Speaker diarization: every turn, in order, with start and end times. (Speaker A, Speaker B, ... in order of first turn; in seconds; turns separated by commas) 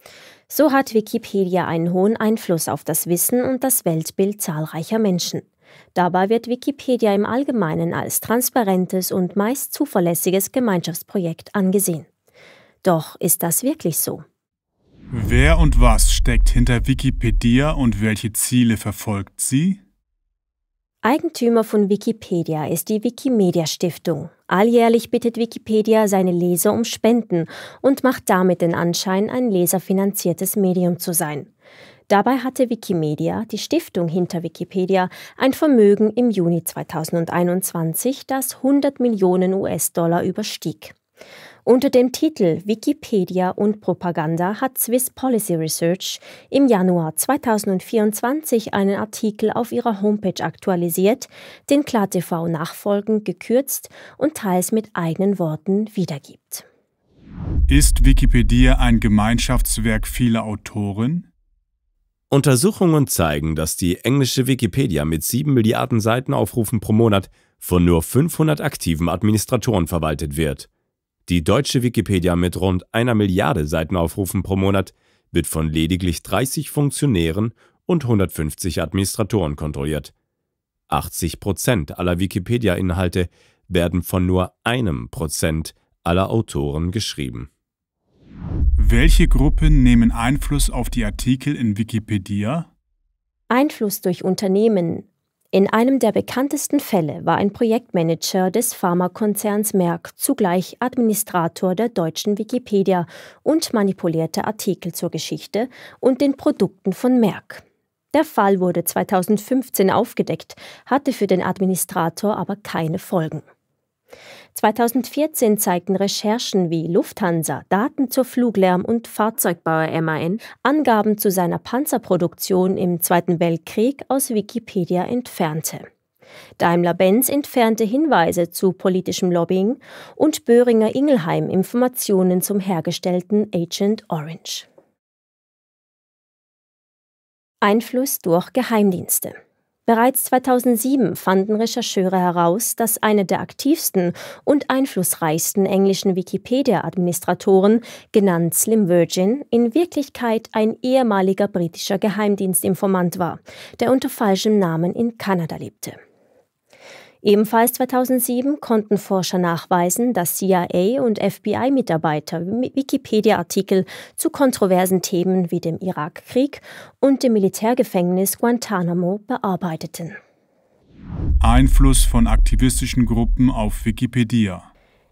Speaker A: 0.5-12.1, Speaker A: 12.8-14.2, Speaker B: 15.1-19.8, Speaker A: 21.0-31.5, Speaker A: 32.1-40.9, Speaker A: 41.6-56.6, Speaker B: 57.7-61.3, Speaker C: 62.3-70.7, Speaker C: 71.3-80.1, Speaker C: 80.9-87.5, Speaker B: 88.8-92.7, Speaker A: 93.5-113.4, Speaker A: 114.5-125.9, Speaker A: 126.6-134.7, Speaker A: 137.6-139.3, Speaker A: 139.9-156.0, Speaker A: 157.2-170.2, Speaker B: 171.4-174.7